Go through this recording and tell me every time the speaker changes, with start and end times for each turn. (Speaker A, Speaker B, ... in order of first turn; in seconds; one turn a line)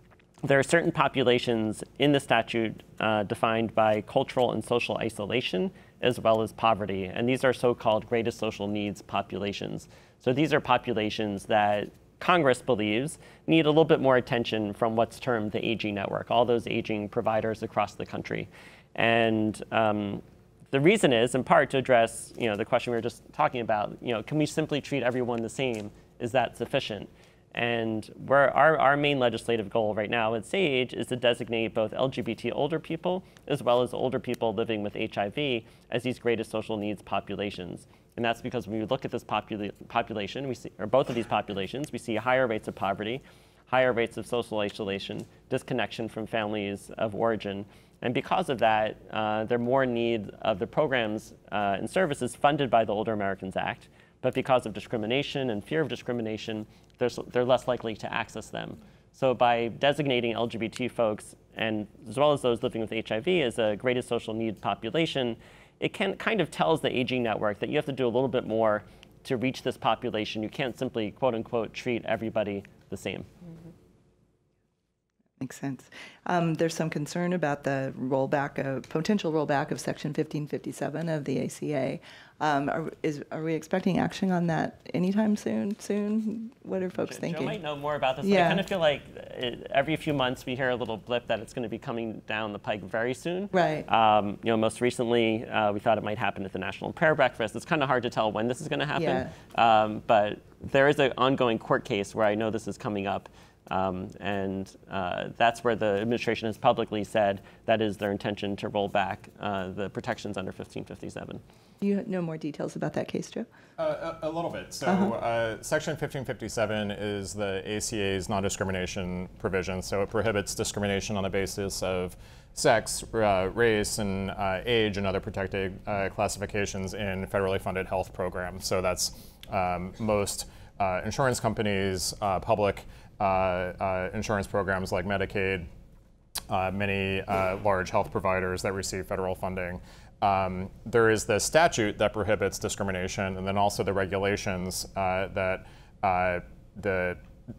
Speaker A: 0.4-73.3
Speaker B: 75.4-87.6
Speaker A: 87.0-111.4
Speaker B: 88.2-88.6
Speaker B: 93.5-93.8
Speaker B: 98.9-99.3
Speaker B: 111.8-113.5
Speaker C: 113.8-135.7
Speaker B: 114.8-115.1
Speaker C: 136.5-147.2